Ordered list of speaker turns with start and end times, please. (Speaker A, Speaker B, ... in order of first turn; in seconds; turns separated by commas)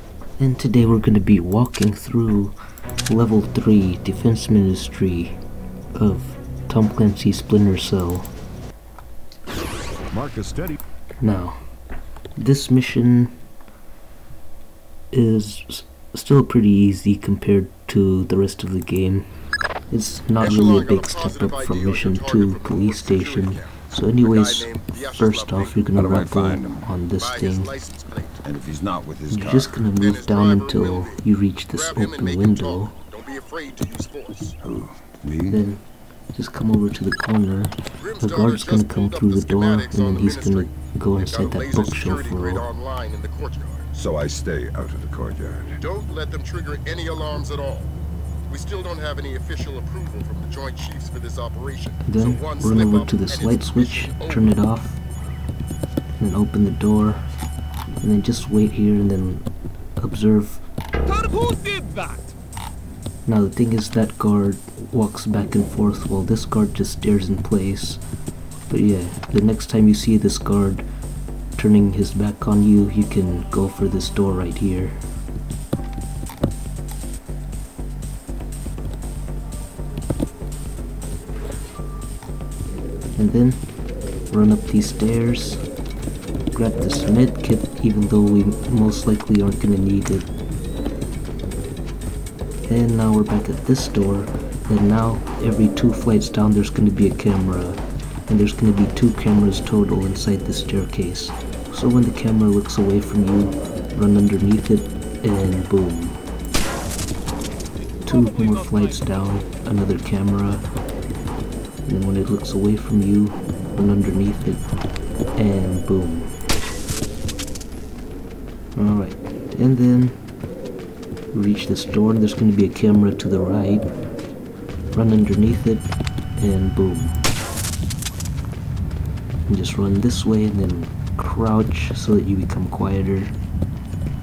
Speaker A: 0.4-2.5, Speaker A: 3.1-5.4, Speaker A: 6.0-8.3, Speaker B: 10.1-10.8, Speaker A: 11.2-11.6, Speaker A: 12.4-13.3, Speaker A: 15.1-19.3, Speaker A: 19.9-27.7, Speaker C: 20.4-25.9, Speaker B: 26.0-26.9, Speaker C: 27.2-28.4, Speaker B: 28.4-29.8, Speaker A: 29.3-33.0, Speaker C: 30.0-34.6, Speaker B: 34.6-35.6, Speaker A: 35.5-42.7, Speaker C: 38.0-43.9, Speaker B: 44.0-45.8, Speaker C: 45.8-47.9, Speaker C: 48.5-54.5, Speaker A: 52.0-55.0, Speaker A: 56.2-57.3, Speaker A: 58.0-60.7, Speaker D: 61.1-62.3, Speaker A: 63.3-68.0, Speaker A: 68.7-70.9, Speaker A: 71.5-75.0, Speaker A: 83.2-83.7, Speaker A: 84.3-85.6, Speaker A: 86.5-90.3, Speaker A: 92.7-106.2, Speaker D: 108.0-109.3, Speaker A: 108.0-110.7, Speaker A: 111.9-114.7, Speaker A: 115.4-116.3, Speaker A: 118.8-120.2, Speaker A: 121.3-123.9, Speaker A: 124.9-127.2, Speaker A: 129.5-133.4